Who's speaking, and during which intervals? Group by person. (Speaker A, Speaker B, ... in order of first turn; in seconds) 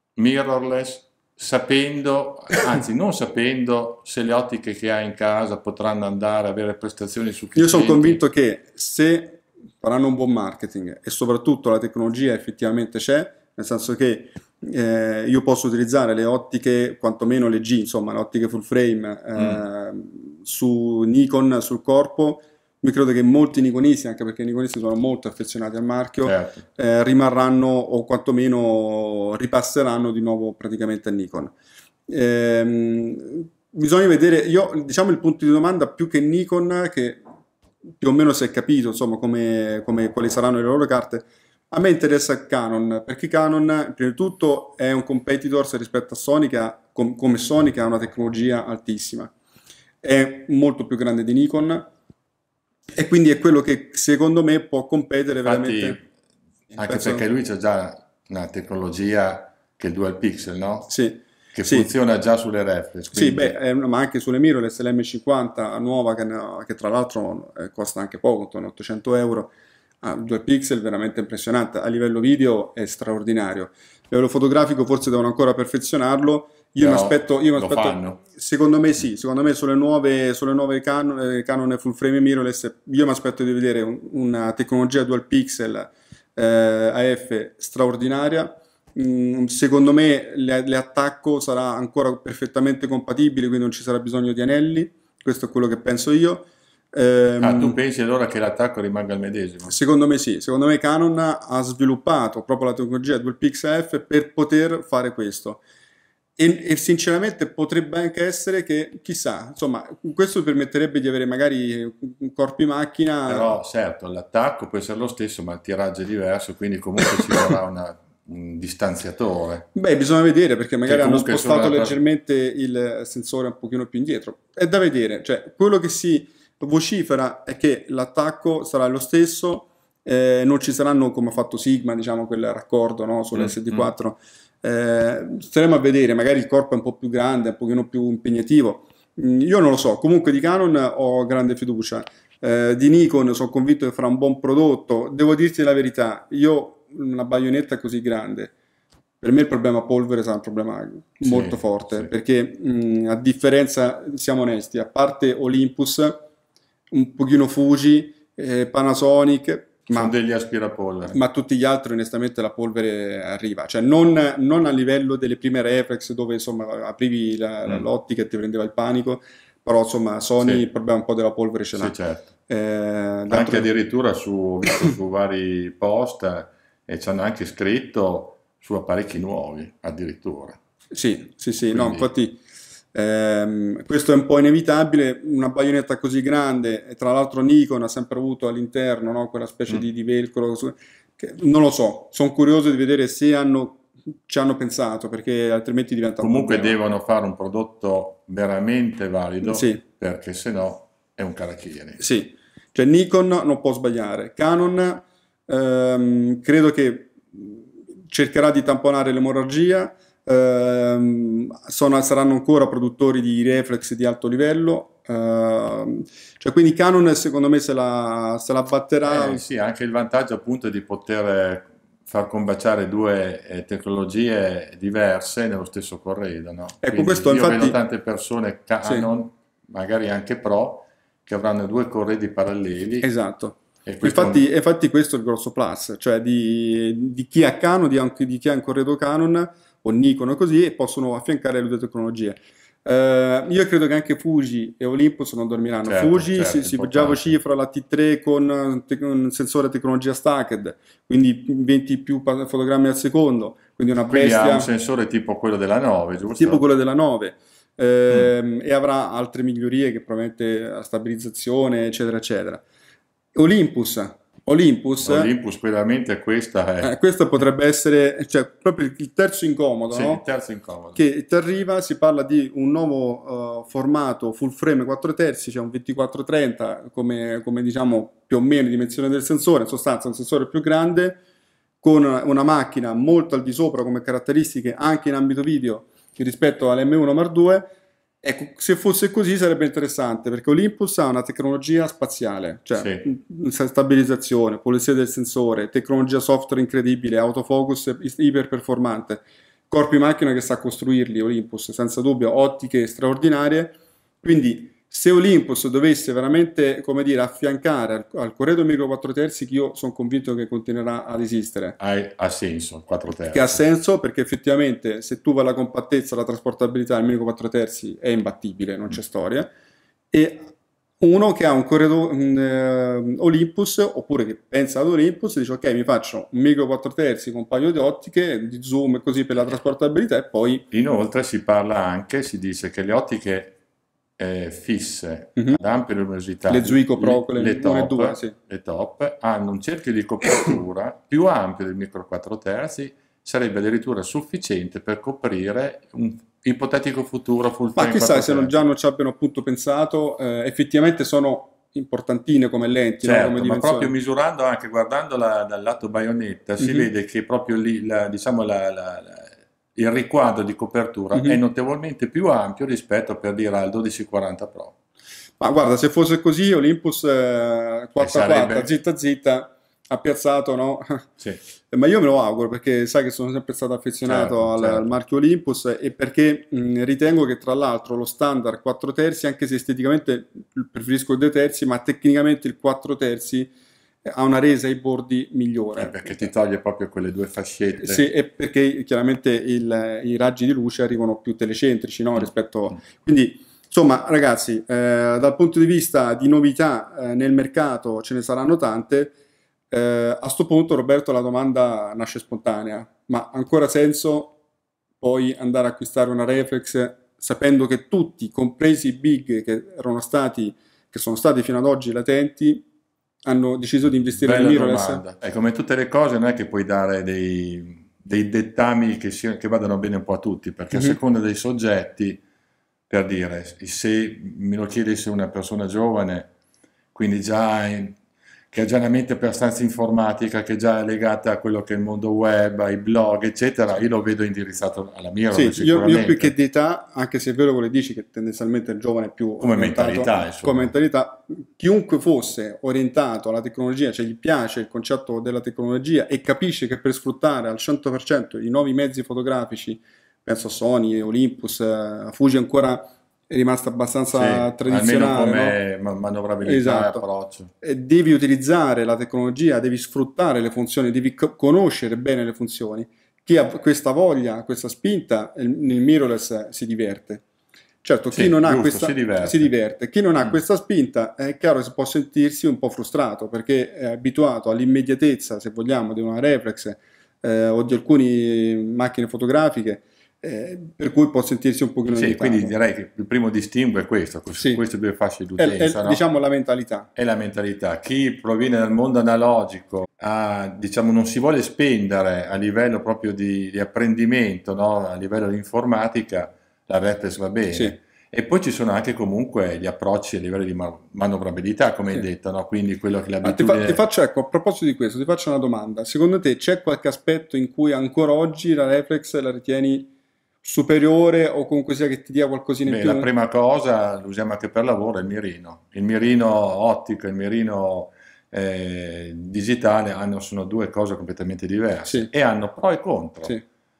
Speaker A: 0.2-8.2, 19.4-19.6, 26.2-26.6, 55.4-56.0, 56.8-60.9, 61.5-63.5, 76.8-78.2, 97.4-99.8, 113.3-119.7, 120.8-121.9, 133.3-133.9, 151.2-152.1, 159.9-161.2, 170.4-170.7, 171.8-172.3, 173.3-180.6, 181.7-182.1, 196.2-202.0, 219.1-233.1, 233.9-234.4, 245.8-247.4, 254.1-256.6, 265.0-266.9, 269.9-271.0, 292.8-293.0, 311.8-313.6, 330.7-333.6, 334.2-348.6, 353.0-364.7, 368.0-368.7, 374.1-374.9, 385.8-388.1, 414.2-422.2, 422.9-426.3, 426.9-428.0, 428.5-436.3, 439.4-440.7, 454.1-457.5, 468.1-469.5, 481.9-486.0, 487.0-503.8, 512.7-523.4
Speaker B: 7.5-31.5, 32.1-37.2, 38.0-49.3, 50.0-51.9, 53.0-56.0, 56.7-57.2, 60.9-61.9, 63.1-69.5, 70.0-97.8, 99.7-105.6, 106.4-113.6, 119.8-148.5, 149.2-156.2, 156.9-160.1, 161.1-171.9, 172.5-173.7, 180.9-182.4, 182.9-196.8, 199.4-199.8, 202.0-219.4, 226.8-227.8, 233.0-254.7, 256.3-262.6, 263.4-265.3, 266.8-270.2, 270.9-281.2, 281.8-311.8, 313.3-319.5, 320.1-320.5, 321.0-330.7, 336.5-338.4, 347.8-353.9, 356.6-356.9, 361.1-361.4, 365.4-371.1, 371.7-383.5, 384.1-386.3, 387.8-399.1, 399.7-404.4, 405.0-412.6, 413.2-415.0, 435.3-455.6, 456.4-457.1, 457.6-467.2, 467.8-482.6, 484.4-484.6, 485.4-486.9, 503.2-509.9, 510.4-513.1